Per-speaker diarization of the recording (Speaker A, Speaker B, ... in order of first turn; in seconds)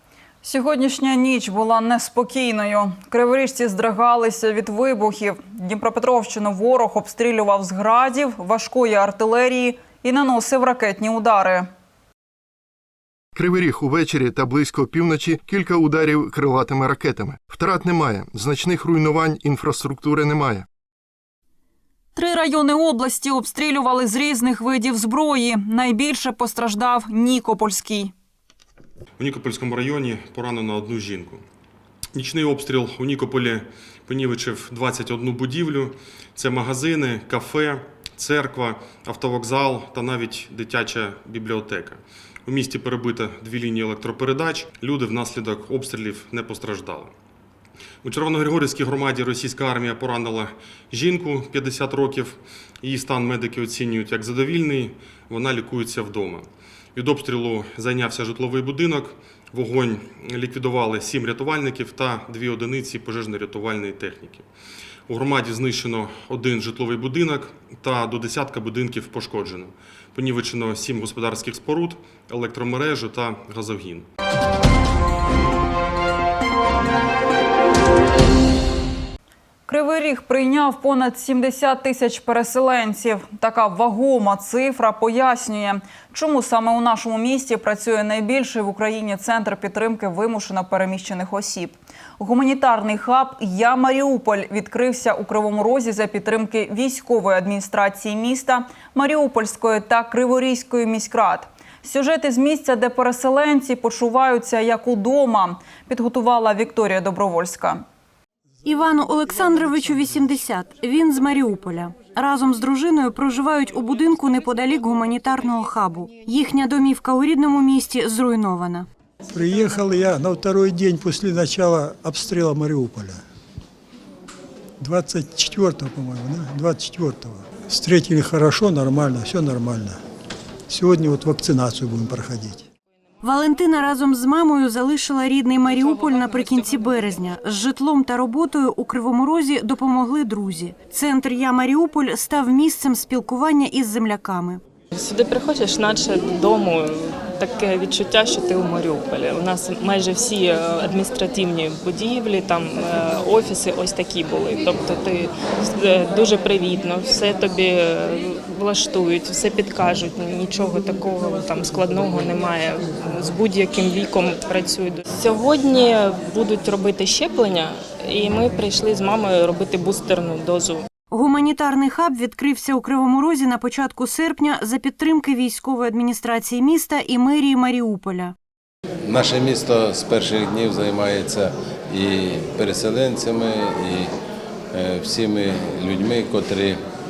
Speaker A: 0.4-11.7, 22.1-28.1, 79.7-107.8
Speaker B: 13.3-20.6
Speaker C: 29.2-31.4, 32.1-47.1, 48.0-64.5, 65.1-74.0
Speaker D: 108.6-118.9, 133.2-144.6, 171.1-178.3
Speaker E: 119.3-123.2, 124.8-130.0, 130.7-132.6
Speaker F: 144.9-170.8
Speaker G: 179.0-184.1, 184.7-186.8